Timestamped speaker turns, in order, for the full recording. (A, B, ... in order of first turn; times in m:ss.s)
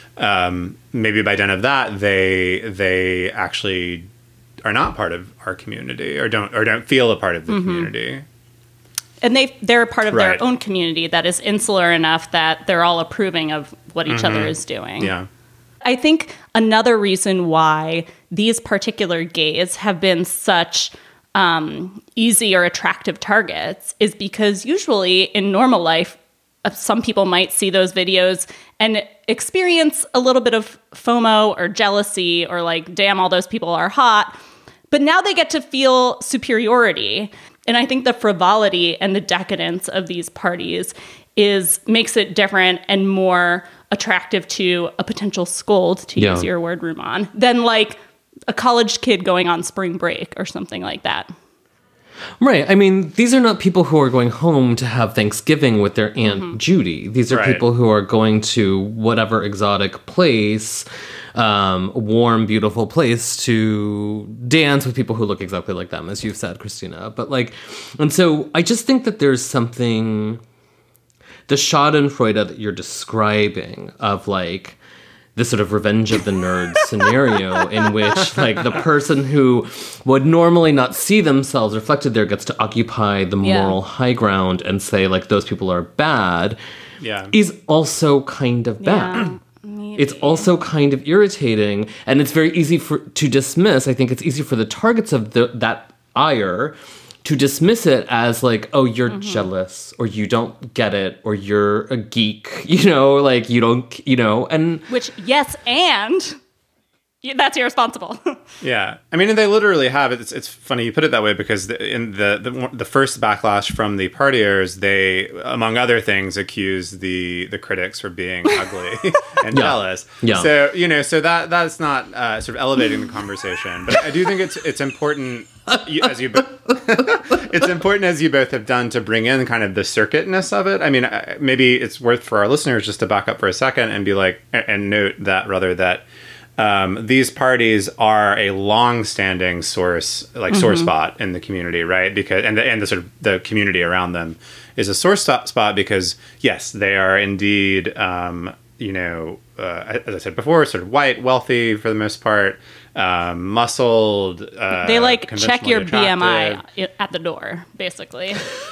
0:00.2-0:04.1 A
0:04.6-0:08.2 A
0:07.5-0:07.9 B
0:09.2-0:15.1 B
0:10.1-0:10.4 A
0:14.1-0:15.3 A
0:15.8-0:34.4 B
0:34.9-0:51.3 B
0:46.2-0:46.5 C
0:52.4-1:10.4 C
0:56.2-0:56.6 B
0:57.3-0:57.6 A
1:11.5-1:14.8 C
1:15.4-1:26.6 C
1:23.4-1:23.8 B
1:27.0-1:27.4 A
1:27.3-1:29.3 C
1:28.8-1:30.5 B
1:30.0-1:44.9 C
1:39.1-1:39.5 B
1:44.9-1:46.4 B
1:47.2-1:48.4 B
1:48.6-2:16.1 A
1:59.5-2:00.5 C
2:16.6-2:36.6 A
2:20.5-2:20.9 B
2:34.8-2:38.4 B